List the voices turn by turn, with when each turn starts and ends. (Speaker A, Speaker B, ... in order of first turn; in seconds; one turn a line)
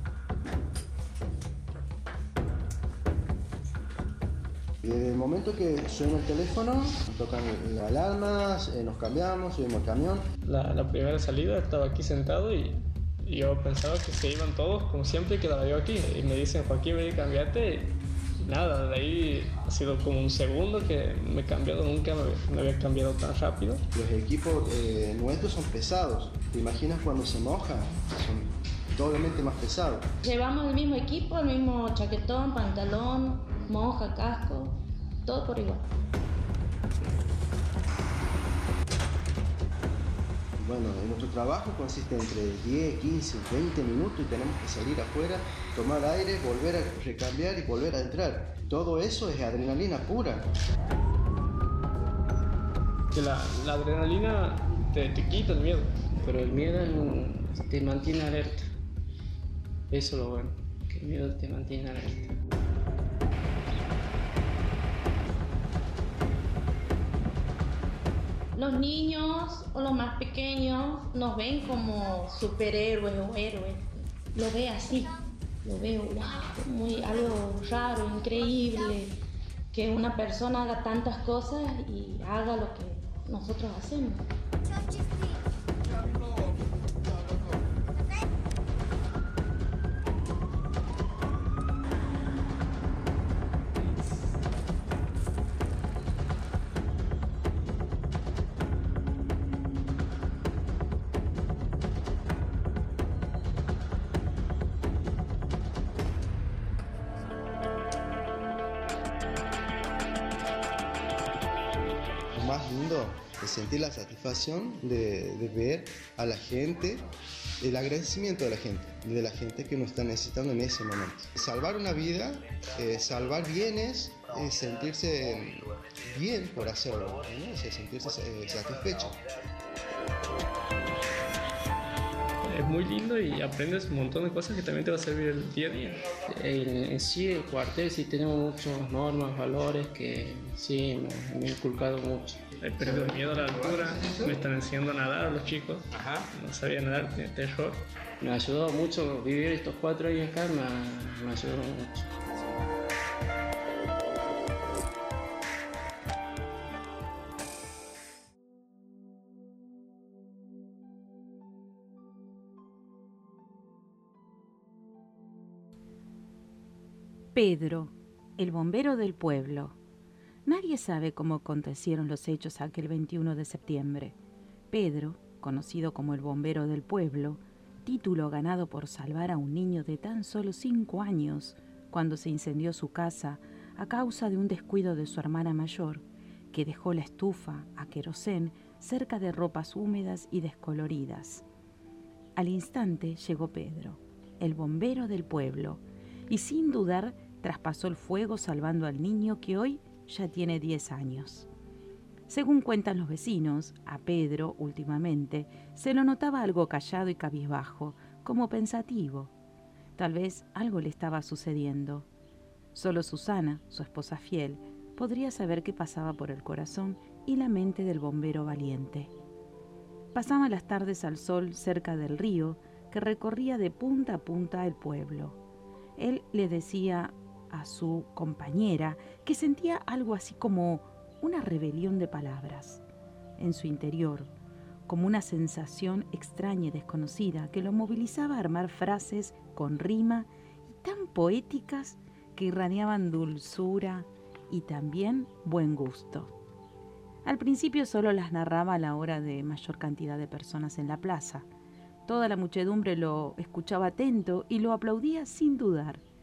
Speaker A: 4.8-10.2
Speaker B: 10.4-23.8
Speaker A: 23.9-30.1
Speaker C: 30.2-35.9
Speaker A: 40.6-50.5
Speaker B: 53.1-55.9
Speaker D: 56.2-58.6
Speaker D: 59.9-62.3
Speaker C: 68.5-79.2
Speaker C: 79.7-84.3
Speaker A: 112.3-117.0
Speaker A: 117.6-129.2
Speaker B: 132.5-136.1
Speaker D: 136.3-142.6
Speaker B: 142.6-147.9
Speaker D: 148.2-152.0
Speaker E: 167.3-169.8
Speaker E: 170.4-174.2
Speaker E: 174.7-191.4
Speaker E: 192.4-201.5
Speaker E: 202.3-209.3
Speaker E: 209.9-212.1
Speaker E: 212.7-219.1
Speaker E: 220.1-225.4
Speaker E: 226.0-232.8
Speaker E: 233.4-234.3
Speaker E: 234.9-246.3
Speaker E: 247.2-251.5
Speaker E: 252.1-256.0